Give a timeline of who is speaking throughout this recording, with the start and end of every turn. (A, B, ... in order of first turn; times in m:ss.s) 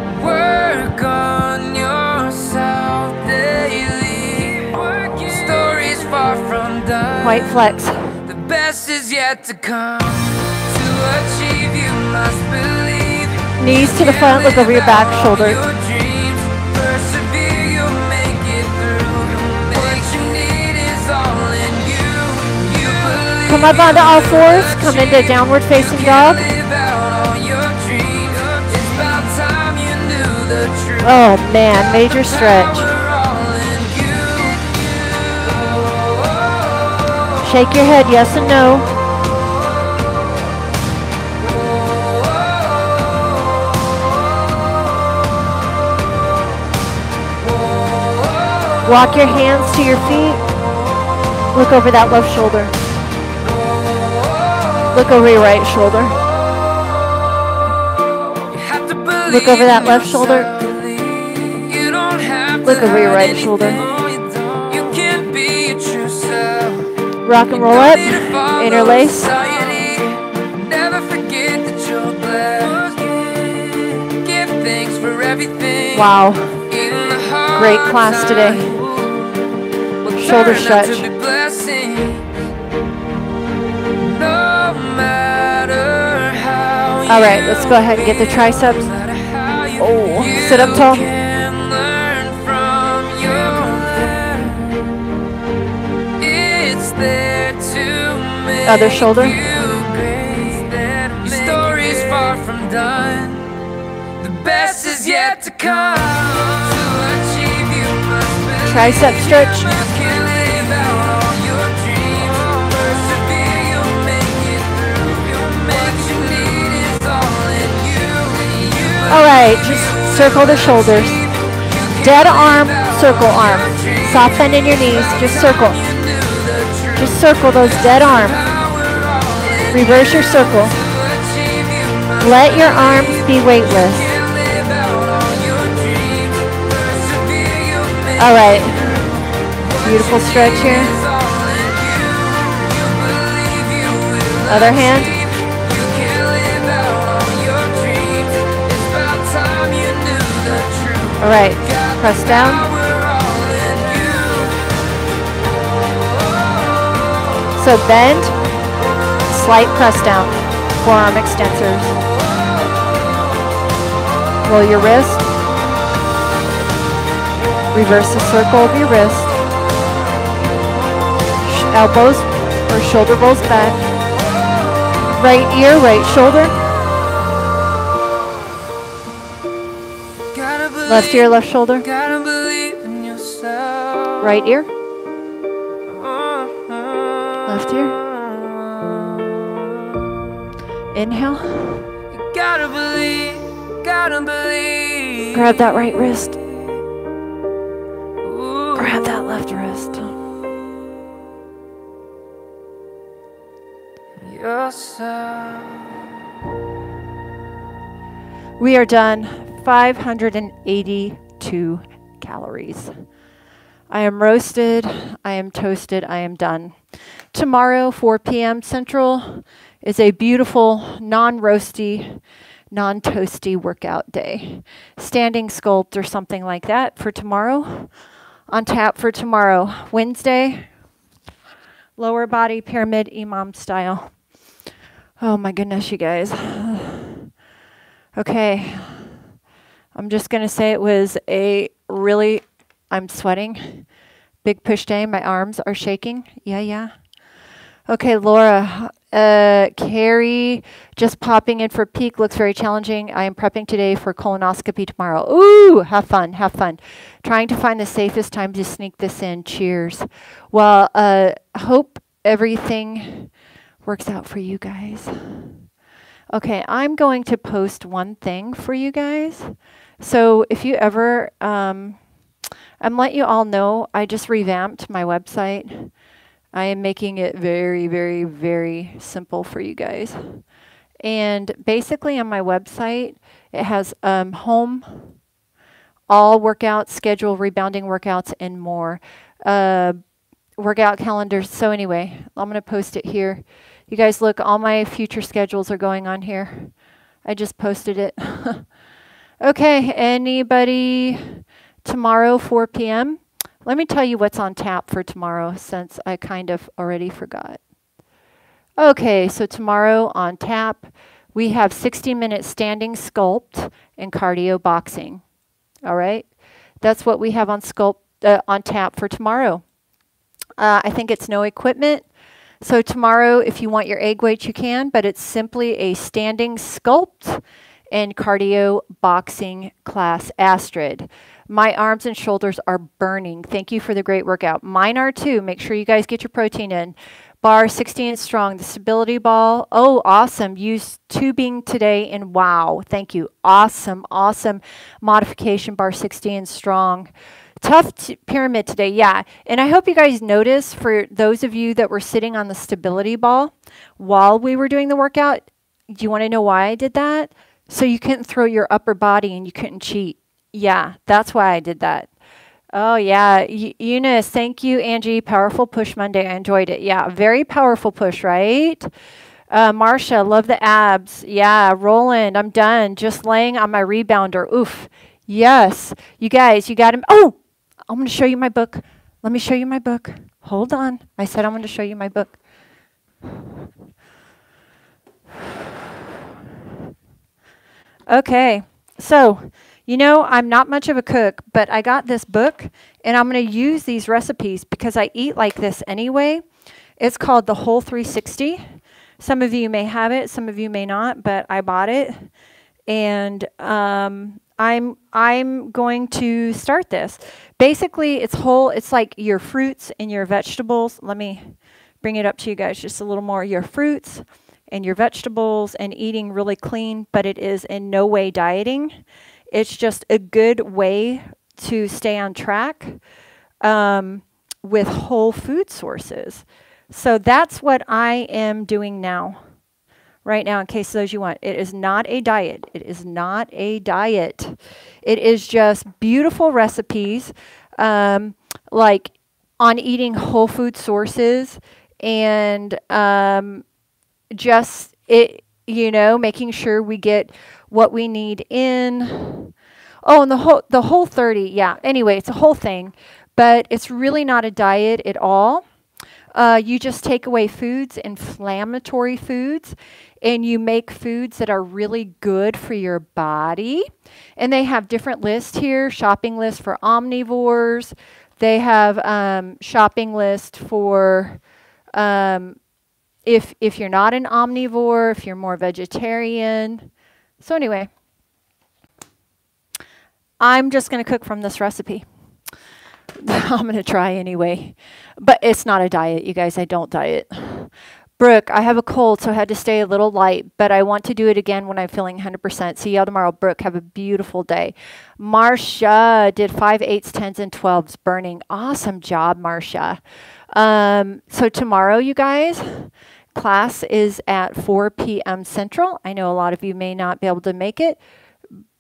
0:00.2-0:07.3 A
0:07.2-0:08.0 B
0:08.3-0:13.4 A
0:13.6-0:15.6 B
0:15.7-0:23.4 A
0:23.4-0:26.5 B
0:26.5-0:31.0 A
0:31.0-0:32.9 B
0:32.9-0:34.9 A
0:37.4-0:38.9 B
0:48.8-0:50.4 B
0:51.5-0:52.7 B
0:54.9-0:56.2 B
0:58.6-0:59.7 A
0:59.3-1:00.6 B
1:00.4-1:02.7 A
1:02.6-1:03.9 B
1:03.8-1:06.8 A
1:07.2-1:09.5 B
1:08.1-1:08.4 A
1:09.4-1:15.9 A
1:15.9-1:16.7 B
1:16.8-1:17.5 A
1:17.5-1:18.8 B
1:18.3-1:19.1 A
1:20.2-1:21.1 B
1:20.3-1:22.2 A
1:24.2-1:27.0 A
1:27.1-1:28.9 B
1:29.1-1:29.7 A
1:29.8-1:31.1 B
1:31.0-1:34.7 A
1:36.2-1:38.6 A
1:38.6-1:39.4 B
1:39.4-1:43.4 A
1:44.2-1:48.6 A
1:48.6-1:49.9 B
1:49.9-1:58.9 A
1:59.0-2:01.2 B
2:02.0-2:05.8 B
2:06.9-2:08.4 B
2:08.9-2:09.5 A
2:09.7-2:10.8 B
2:11.2-2:11.7 A
2:12.2-2:14.2 B
2:14.4-2:16.3 A
2:16.9-2:18.0 A
2:18.2-2:19.0 B
2:19.8-2:21.0 B
2:21.2-2:24.3 A
2:24.4-2:25.2 B
2:25.9-2:31.1 A
2:31.2-2:32.7 B
2:33.0-2:34.4 A
2:37.6-2:38.4 B
2:39.3-2:41.9 B
2:44.4-2:45.3 B
2:47.7-2:49.3 B
2:51.4-2:53.8 B
2:55.2-2:56.6 B
3:00.3-3:00.8 A
3:00.8-3:01.9 B
3:01.9-3:04.1 A
3:04.2-3:04.7 B
3:06.3-3:07.0 A
3:07.4-3:08.0 B
3:10.9-3:11.9 B
3:12.3-3:15.2 A
3:15.3-3:16.4 B
3:18.3-3:18.7 A
3:18.7-3:20.2 B
3:24.3-3:25.8 A
3:28.6-3:32.9 B
3:33.9-3:36.7 B
3:37.3-3:42.2 B
3:42.7-3:47.9 B
3:48.5-3:50.7 B
3:52.0-3:54.1 B
3:55.2-3:57.3 B
3:58.2-3:59.0 B
3:59.9-4:03.8 B
4:04.4-4:06.9 B
4:07.9-4:23.3 B
4:23.8-4:25.5 B
4:26.3-4:32.0 B
4:32.8-4:35.9 B
4:36.5-4:40.4 B
4:41.0-4:45.1 B
4:46.1-4:50.0 B
4:50.6-4:56.7 B
4:57.2-4:58.6 B
4:59.4-5:07.6 B
5:08.8-5:15.2 B
5:15.8-5:16.3 B
5:16.8-5:19.6 B
5:20.6-5:22.0 B
5:22.6-5:47.1 B
5:47.6-6:02.1 B
6:02.7-6:08.9 B
6:09.5-6:17.4 B
6:17.9-6:22.4 B
6:28.1-6:36.4 B
6:37.0-6:38.6 B
6:39.2-6:42.3 B
6:42.9-6:58.9 B
6:59.5-7:03.0 B
7:03.6-7:09.4 B
7:10.2-7:23.6 B
7:24.3-7:29.5 B
7:30.0-7:35.6 B
7:36.3-7:51.4 B
7:51.9-7:52.6 B
7:53.3-7:56.9 B
7:57.4-7:57.9 B
8:00.4-8:02.0 B
8:03.2-8:20.0 B
8:20.5-8:28.0 B